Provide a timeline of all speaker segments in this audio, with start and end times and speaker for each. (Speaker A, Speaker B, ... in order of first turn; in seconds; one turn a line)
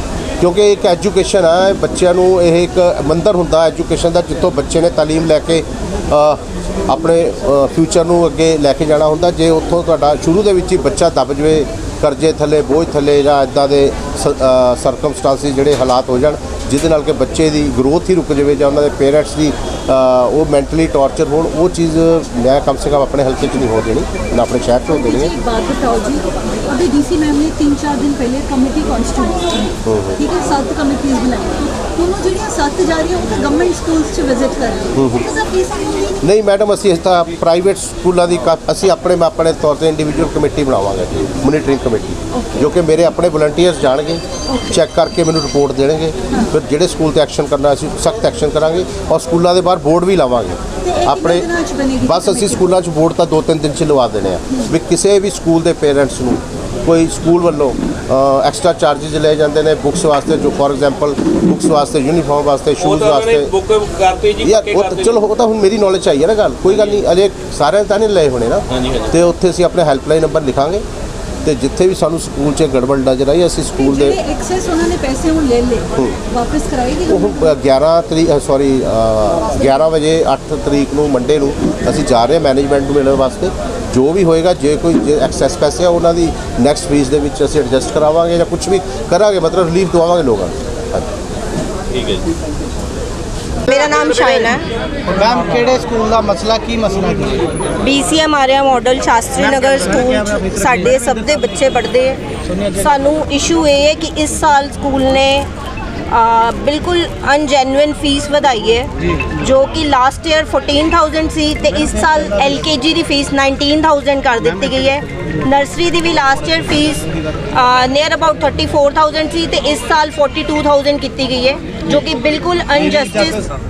Speaker A: 0.4-25.3
Speaker B: 24.9-36.1
Speaker A: 29.8-30.2
Speaker A: 34.9-35.3
Speaker A: 36.2-63.5
Speaker B: 50.9-52.6
Speaker C: 62.8-65.2
Speaker A: 64.4-70.8
Speaker C: 66.7-67.0
Speaker C: 68.7-69.2
Speaker A: 71.4-74.2
Speaker B: 73.8-77.3
Speaker A: 77.1-91.1
Speaker C: 91.9-92.3
Speaker D: 93.7-94.6
Speaker C: 93.7-94.5
Speaker E: 95.1-97.6
Speaker D: 97.8-102.2
Speaker E: 99.4-101.1
Speaker E: 102.5-102.9
Speaker D: 102.8-105.5
Speaker D: 106.1-123.4